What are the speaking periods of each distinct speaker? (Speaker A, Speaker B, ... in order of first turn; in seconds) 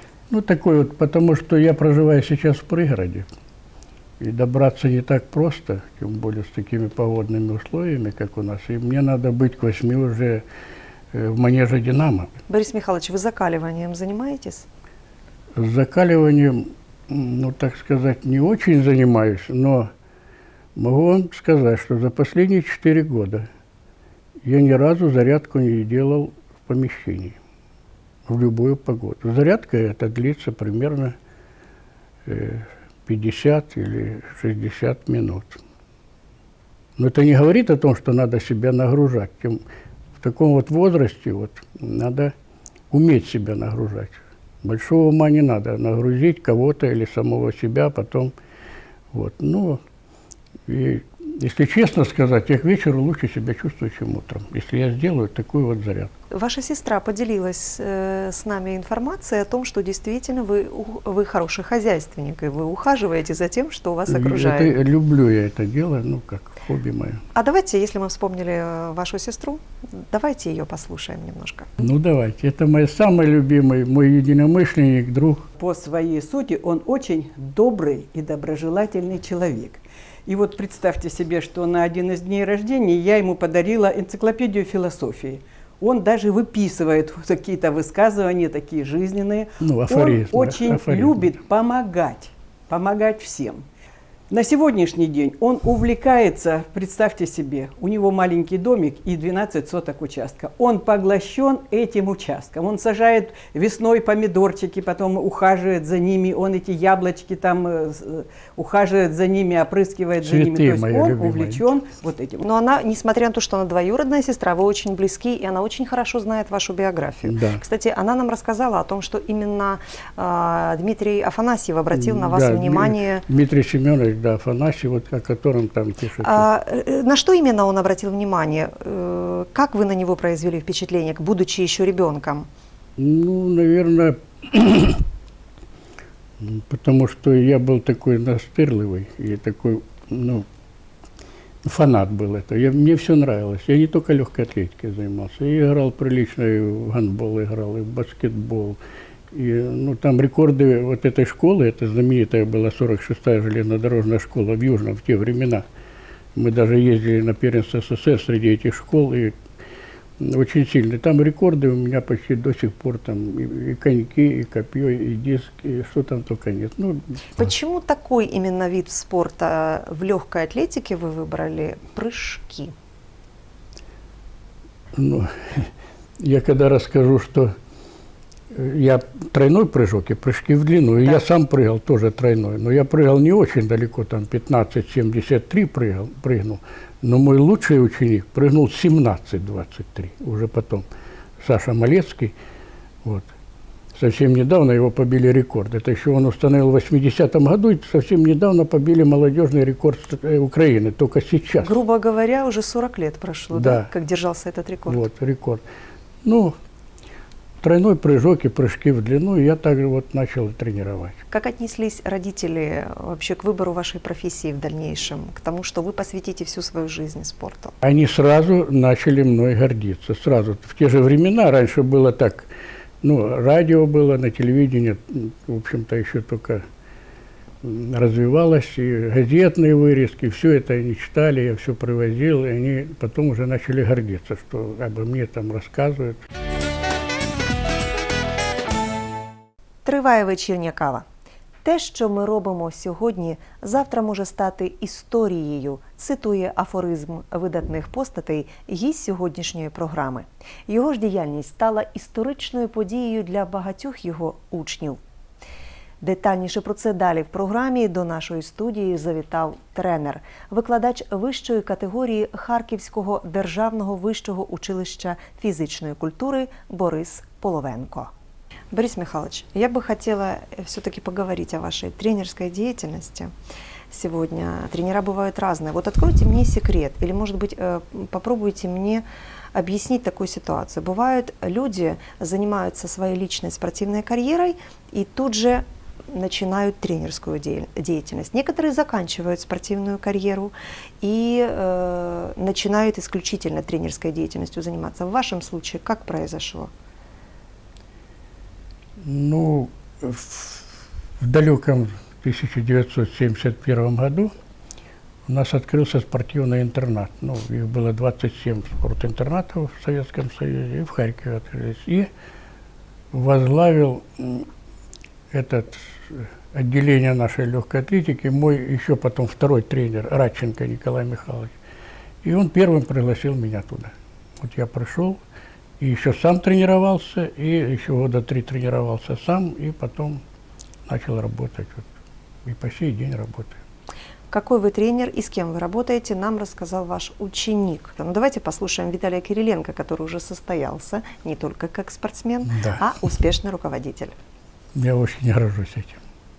Speaker A: 0.3-3.3, 4.2-10.4, 11.1-12.3, 15.6-19.9, 20.8-23.5, 24.4-27.4, 28.3-31.2, 32.3-35.6, 37.0-39.6, 40.2-42.3, 42.9-48.3, 49.1-49.8, 50.7-56.1, 64.1-67.2, 71.8-75.5, 89.6-91.4, 110.2-111.6, 117.2-117.6, 121.9-126.5, 133.0-135.0, 136.4-140.5, 141.6-148.8, 149.3-155.6, 156.4-159.3, 160.2-167.4, 174.9-177.5, 178.5-190.9, 191.4-192.3, 193.0-193.3, 193.9-201.8, 203.5-203.9, 204.9-205.6, 206.2-206.6, 207.6-211.2, 217.8-222.5, 223.0-226.6, 227.6-236.2, 299.0-304.3, 305.3-312.1, 313.1-314.5, 315.3-321.5, 322.2-325.2, 325.8-330.2, 330.9-331.9, 332.4-333.6, 342.5-342.9, 344.8-346.0
Speaker B: 12.5-14.7, 56.3-64.7, 67.3-71.7, 112.4-123.2, 126.2-132.5, 167.4-172.7, 201.6-205.0, 211.3-217.8, 239.8-241.0, 241.6-255.0, 256.0-268.1, 268.7-273.3, 273.9-296.7, 334.3-344.1
Speaker C: 75.6-93.6, 94.3-112.4